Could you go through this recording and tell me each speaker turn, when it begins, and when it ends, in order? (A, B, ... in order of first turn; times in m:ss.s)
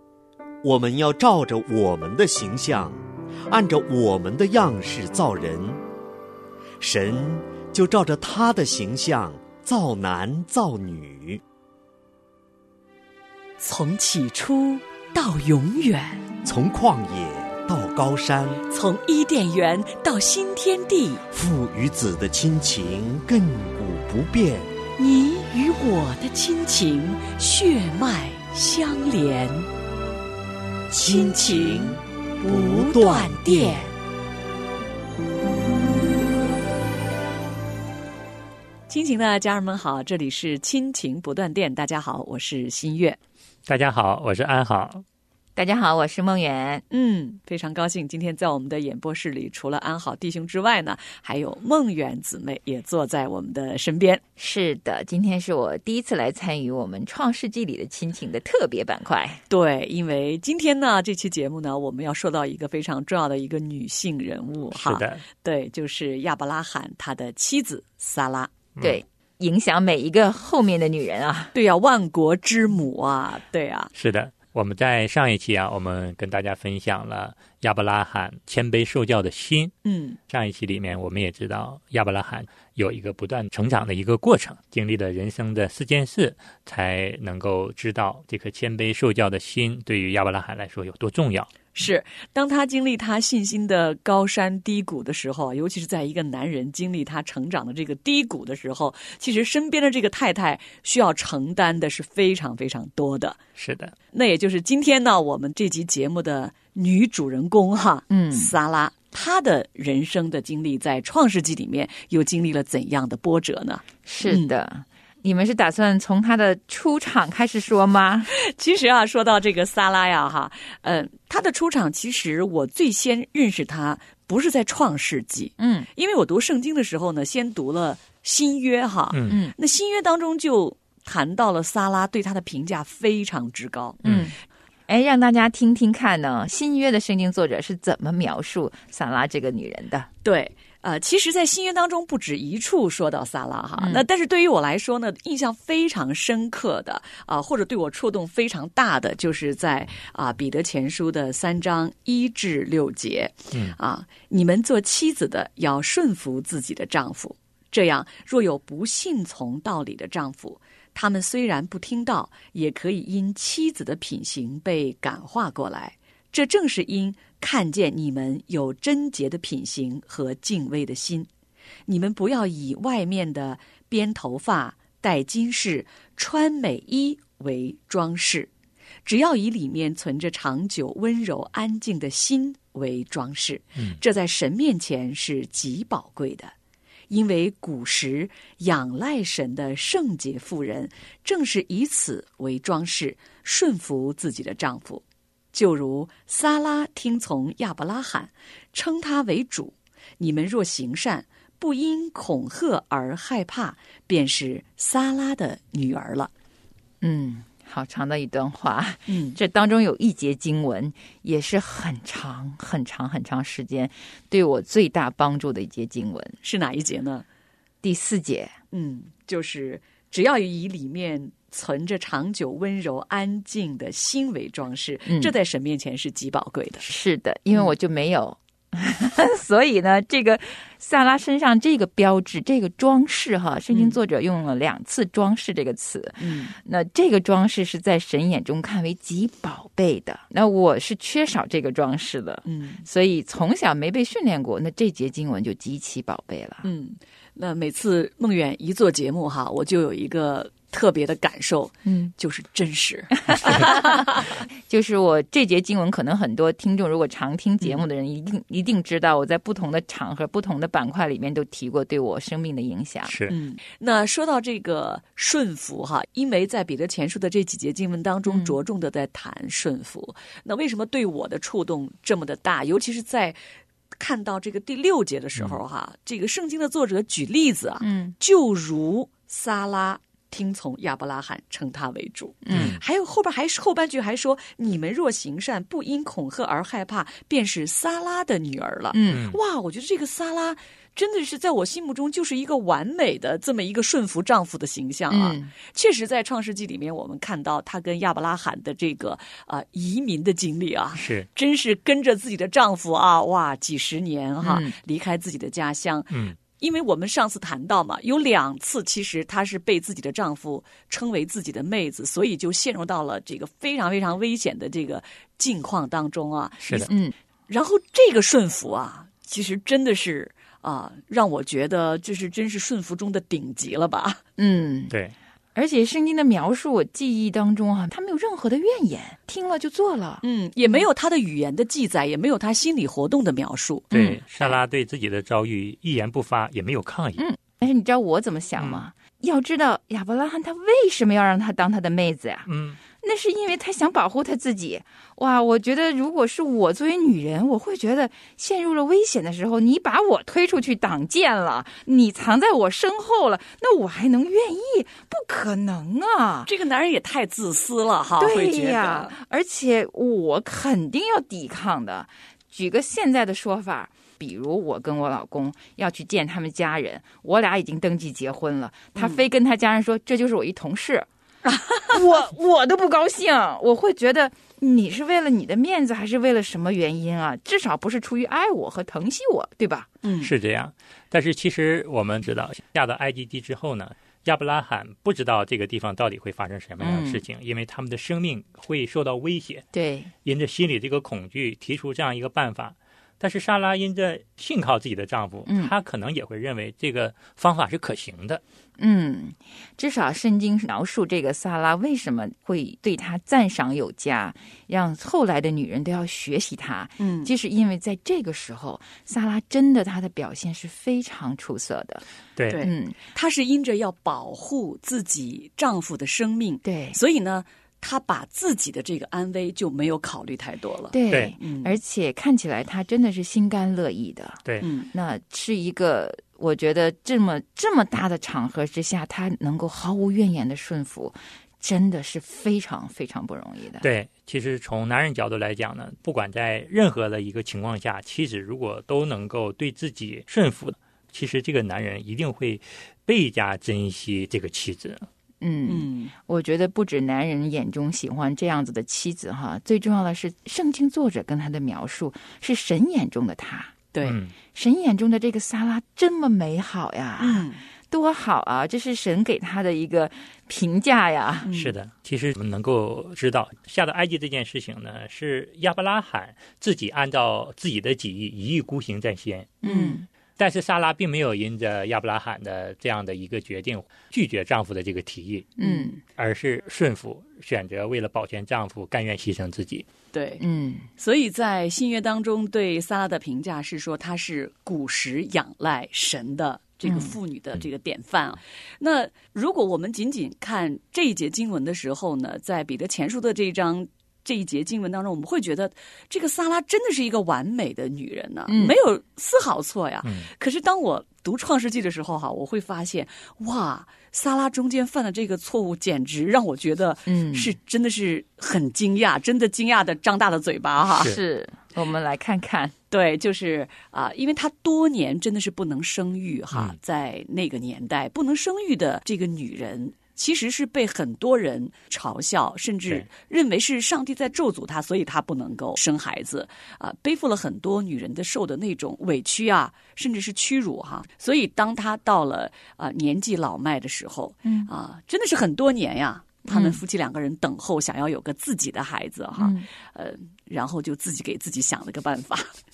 0:00.6-0:05.8 A
0:06.8-0:11.4 A
0:13.6-0:16.2 B
0:16.4-0:18.6 A
0:18.7-0:21.2 B
0:21.3-0:24.7 A
0:25.0-0:29.7 B
0:30.9-0:33.8 A
0:31.0-0:33.9 B
0:38.9-0:43.2 B
0:43.7-0:45.0 C
0:45.6-0:46.8 D
0:46.9-0:54.2 B
0:54.4-0:59.4 D
0:59.5-1:08.5 B
1:04.7-1:05.2 C
1:08.8-1:11.5 D
1:11.5-1:13.9 B
1:13.9-1:19.7 C
1:19.8-1:20.2 B
1:20.3-1:31.5 C
1:31.7-1:43.4 B
1:43.6-1:43.9 C
1:44.1-1:54.5 B
1:48.1-1:48.5 D
1:54.0-1:58.3 D
1:58.3-2:14.0 B
2:05.6-2:05.9 D
2:09.1-2:09.4 C
2:09.3-2:09.5 D
2:14.0-2:14.3 C
2:14.0-2:14.4 D
2:14.9-2:20.1 D
2:20.2-2:51.3 B
2:23.8-2:24.0 D
2:51.9-2:58.5 B
2:59.0-3:06.5 B
3:07.1-3:26.3 B
3:27.0-3:36.4 D
3:29.1-3:29.4 B
3:36.4-3:37.2 B
3:37.8-3:38.5 D
3:38.7-3:46.9 B
3:45.0-3:45.3 D
3:46.8-4:06.7 D
3:53.7-3:54.0 B
3:56.2-3:56.5 B
4:02.4-4:02.8 B
4:06.6-4:14.1 B
4:11.8-4:12.1 D
4:13.3-4:23.2 D
4:23.1-4:23.3 C
4:23.3-4:33.4 B
4:28.2-4:28.5 D
4:33.9-5:16.9 B
4:37.8-4:38.2 D
4:42.4-4:42.8 D
4:42.5-4:42.8 C
4:48.9-4:49.2 D
4:49.1-4:49.4 C
4:55.1-4:55.5 D
5:00.9-5:01.3 C
5:04.4-5:04.7 D
5:06.1-5:06.4 C
5:16.6-5:16.9 C
5:16.9-5:17.1 D
5:17.5-5:24.2 B
5:24.4-5:24.9 D
5:24.9-5:25.1 C
5:25.5-5:30.2 D
5:30.2-5:33.9 B
5:33.9-5:37.2 C
5:33.9-5:34.2 D
5:37.2-5:56.5 D
5:38.6-5:38.8 C
5:42.5-5:42.8 C
5:56.4-5:59.1 B
5:58.2-6:11.1 D
6:11.4-6:11.9 B
6:11.9-6:19.9 D
6:20.0-6:20.3 B
6:20.2-6:29.6 C
6:26.8-6:27.2 D
6:29.7-6:30.1 D
6:30.2-6:38.4 C
6:35.5-6:35.7 D
6:38.8-6:52.0 D
6:47.0-6:47.3 B
6:52.4-6:52.6 C
6:52.5-7:01.8 B
6:52.6-6:53.0 D
6:56.6-6:57.0 D
7:00.9-7:13.8 D
7:04.6-7:04.9 B
7:13.8-7:25.1 C
7:25.4-7:33.7 D
7:25.7-7:26.1 B
7:34.0-7:34.3 C
7:34.5-7:41.5 D
7:37.2-7:37.6 B
7:41.4-7:41.7 B
7:41.5-7:49.6 C
7:49.6-7:50.0 B
7:49.6-7:50.0 D
7:50.4-7:55.6 C
7:55.6-7:56.0 D
7:55.6-7:56.0 B
7:56.1-7:59.9 C
8:00.1-8:00.4 B
8:00.4-8:00.9 D
8:01.0-8:31.2 B
8:06.8-8:07.1 D
8:18.5-8:18.8 D
8:27.1-8:27.5 D
8:30.8-8:32.7 D
8:32.9-9:02.5 B
8:36.5-8:36.8 C
8:54.4-8:54.7 D
8:56.5-8:56.8 D
8:59.4-8:59.7 D